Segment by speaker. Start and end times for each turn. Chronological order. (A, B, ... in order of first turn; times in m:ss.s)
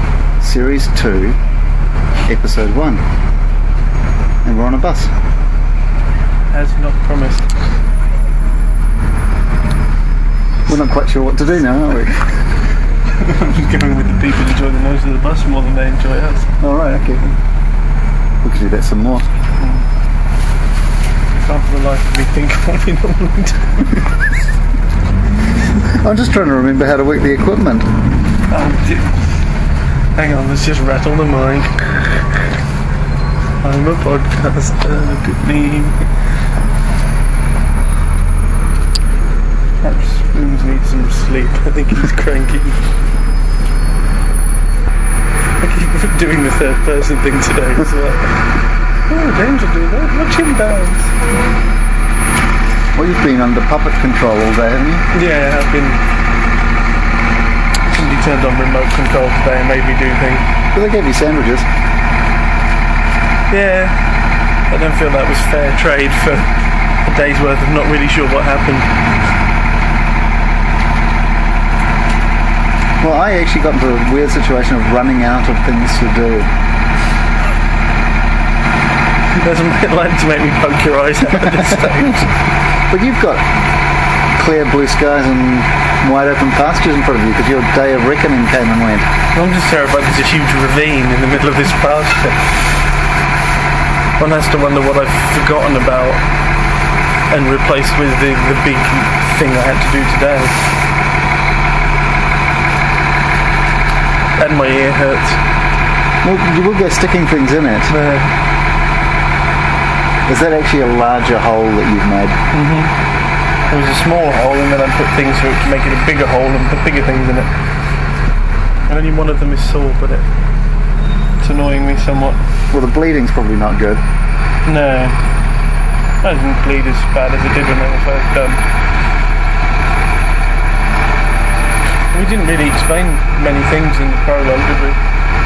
0:00.4-0:01.4 A
0:02.2-0:03.0 A
0:04.4-0:05.1 A
0:06.5-0:07.5 B
0:10.7-0:12.2 A
0:13.1-0:16.5 B
0:16.6-0:17.3 A
0:18.4-0:19.2 A
0:21.4-0:24.0 B
0:26.0-0:27.9 A
0:28.5-0:29.1 B
0:30.1-0:31.9 B
0:33.6-0:36.0 B
0:39.8-0:42.8 B
0:45.6-0:48.4 B
0:49.1-0:51.1 B
0:53.0-0:55.0 A
0:55.1-0:56.0 B
0:57.9-1:00.4 B
1:00.7-1:01.7 A
1:03.5-1:04.0 B
1:04.7-1:06.5 B
1:07.0-1:08.9 B
1:13.0-1:16.5 A
1:19.3-1:22.3 B
1:22.9-1:23.4 A
1:24.3-1:29.1 A
1:29.3-1:32.5 B
1:34.2-1:36.2 B
1:37.3-1:40.6 B
1:44.4-1:45.4 B
1:46.2-1:47.9 A
1:47.9-1:48.3 B
1:50.2-1:52.4 A
1:52.5-1:52.9 B
1:53.7-1:57.5 B
1:58.9-2:00.2 B
2:01.4-2:02.4 B
2:02.7-2:04.0 A
2:04.6-2:05.2 B
2:06.2-2:08.6 B
2:12.1-2:15.0 B